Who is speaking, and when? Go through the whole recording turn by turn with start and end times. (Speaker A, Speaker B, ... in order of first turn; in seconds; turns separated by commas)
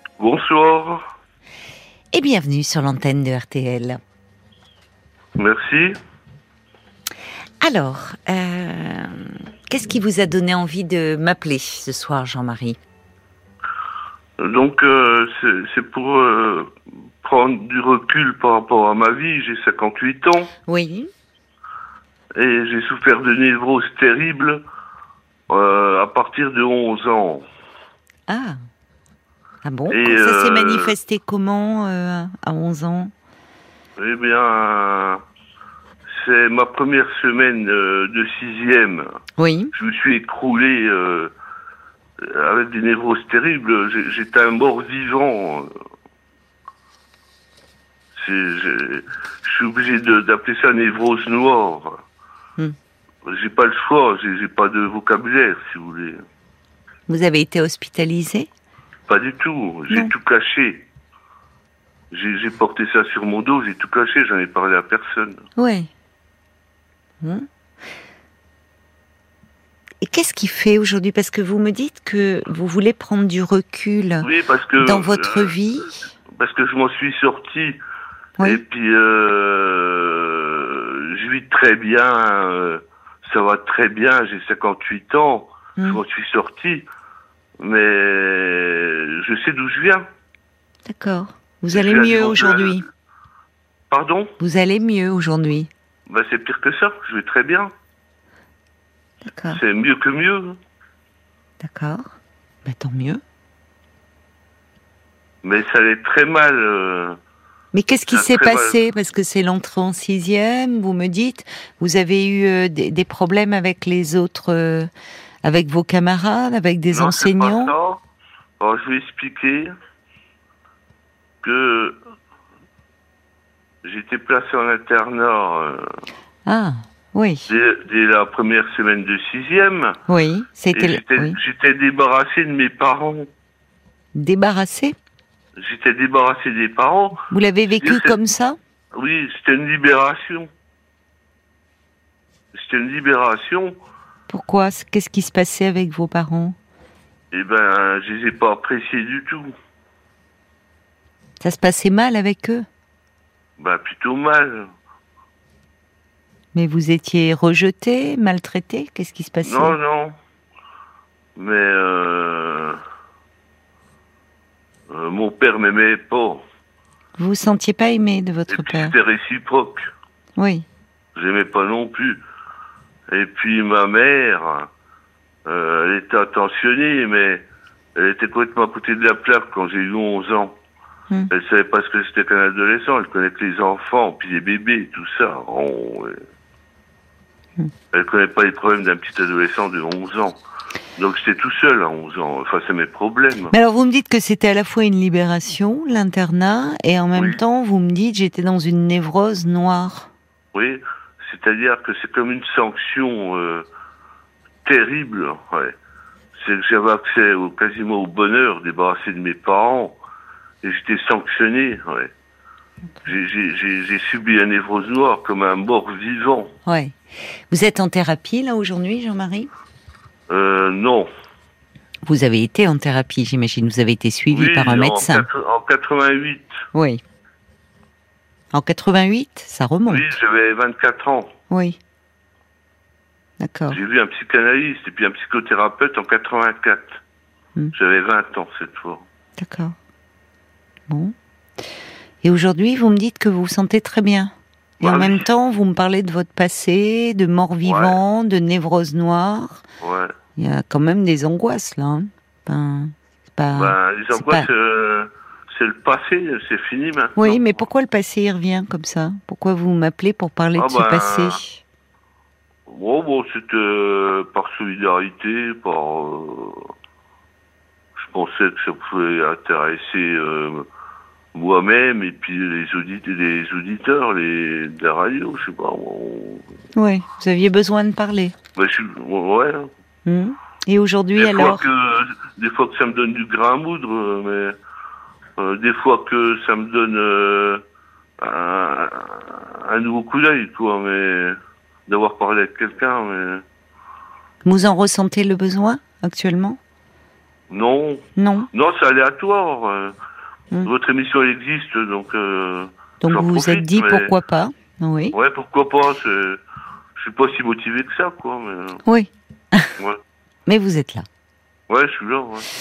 Speaker A: 0.2-1.0, Speaker B: 2.1-4.0, Speaker A: 5.4-6.0, Speaker B: 7.6-12.8, Speaker A: 14.4-20.5, Speaker B: 20.7-21.1, Speaker A: 22.4-24.6, Speaker A: 25.5-27.4, Speaker B: 28.3-28.6, Speaker B: 29.6-33.1, Speaker A: 29.9-30.9, Speaker A: 34.0-35.2, Speaker A: 36.1-39.1, Speaker B: 39.4-39.7, Speaker A: 39.7-41.3, Speaker A: 42.2-45.7, Speaker A: 48.2-52.0, Speaker A: 53.3-56.2, Speaker B: 57.1-58.5, Speaker A: 59.1-60.9, Speaker A: 62.1-65.4, Speaker B: 65.6-65.9, Speaker B: 67.2-67.5, Speaker B: 70.0-74.3, Speaker A: 74.2-75.5, Speaker B: 74.8-76.1, Speaker A: 76.4-77.8, Speaker A: 78.4-86.8, Speaker A: 87.6-90.0, Speaker B: 90.9-92.8, Speaker A: 91.7-92.8, Speaker A: 93.9-94.3, Speaker B: 94.4-95.7, Speaker A: 96.1-97.7, Speaker B: 99.2-99.6, Speaker A: 99.5-100.6, Speaker B: 101.6-102.0, Speaker B: 102.7-103.2, Speaker A: 105.4-107.2, Speaker B: 107.7-114.9, Speaker A: 108.1-108.8, Speaker B: 115.4-117.7, Speaker A: 116.9-118.0, Speaker A: 118.6-119.7, Speaker A: 121.4-122.0, Speaker A: 123.8-125.8, Speaker B: 126.5-127.5, Speaker A: 127.5-130.0, Speaker B: 130.1-131.4, Speaker A: 130.7-133.3, Speaker B: 134.2-134.9, Speaker A: 135.6-137.2, Speaker B: 137.3-138.6, Speaker A: 137.8-138.2, Speaker A: 138.9-140.5, Speaker A: 142.5-143.7, Speaker B: 144.3-146.6, Speaker A: 147.3-149.5, Speaker B: 151.4-152.7, Speaker A: 153.6-154.7, Speaker B: 156.5-159.8, Speaker A: 159.4-160.1, Speaker A: 161.4-162.8, Speaker A: 164.9-166.4, Speaker B: 167.2-168.9, Speaker A: 168.5-169.8, Speaker B: 170.4-170.7, Speaker A: 171.2-172.2, Speaker A: 173.1-174.7, Speaker A: 175.5-177.4, Speaker A: 178.0-180.5, Speaker A: 181.3-186.2, Speaker A: 187.9-190.4, Speaker A: 191.0-193.6, Speaker B: 193.5-200.1, Speaker A: 197.2-197.4, Speaker A: 200.5-203.7, Speaker A: 204.7-205.8, Speaker A: 206.4-210.0, Speaker A: 210.6-212.1, Speaker A: 213.1-216.5, Speaker B: 216.7-217.0, Speaker B: 217.5-219.5, Speaker A: 220.3-221.1, Speaker B: 222.1-225.3, Speaker A: 224.3-226.5, Speaker B: 226.7-227.0, Speaker B: 228.5-230.1, Speaker A: 229.9-231.3, Speaker B: 231.5-231.8, Speaker B: 233.4-233.8, Speaker A: 233.7-237.0, Speaker A: 237.8-239.0, Speaker B: 239.4-239.8, Speaker B: 240.9-241.1, Speaker B: 242.2-249.6, Speaker A: 244.8-245.3, Speaker A: 247.6-248.0, Speaker A: 249.8-250.1, Speaker B: 250.4-254.5, Speaker A: 253.5-257.6, Speaker B: 257.2-261.6, Speaker A: 260.6-261.4, Speaker A: 262.7-266.7, Speaker A: 268.0-270.7, Speaker A: 271.4-276.4, Speaker B: 276.8-278.4, Speaker A: 278.6-279.7, Speaker B: 280.1-281.7, Speaker A: 281.2-284.6, Speaker A: 285.4-287.6, Speaker A: 288.2-291.4, Speaker A: 291.9-293.4, Speaker B: 294.4-296.6, Speaker A: 297.5-299.9, Speaker B: 298.2-298.5, Speaker A: 300.6-304.1, Speaker B: 303.0-305.1, Speaker A: 305.1-306.4, Speaker A: 307.0-308.8, Speaker B: 308.9-309.7, Speaker B: 310.5-311.1, Speaker A: 311.7-312.5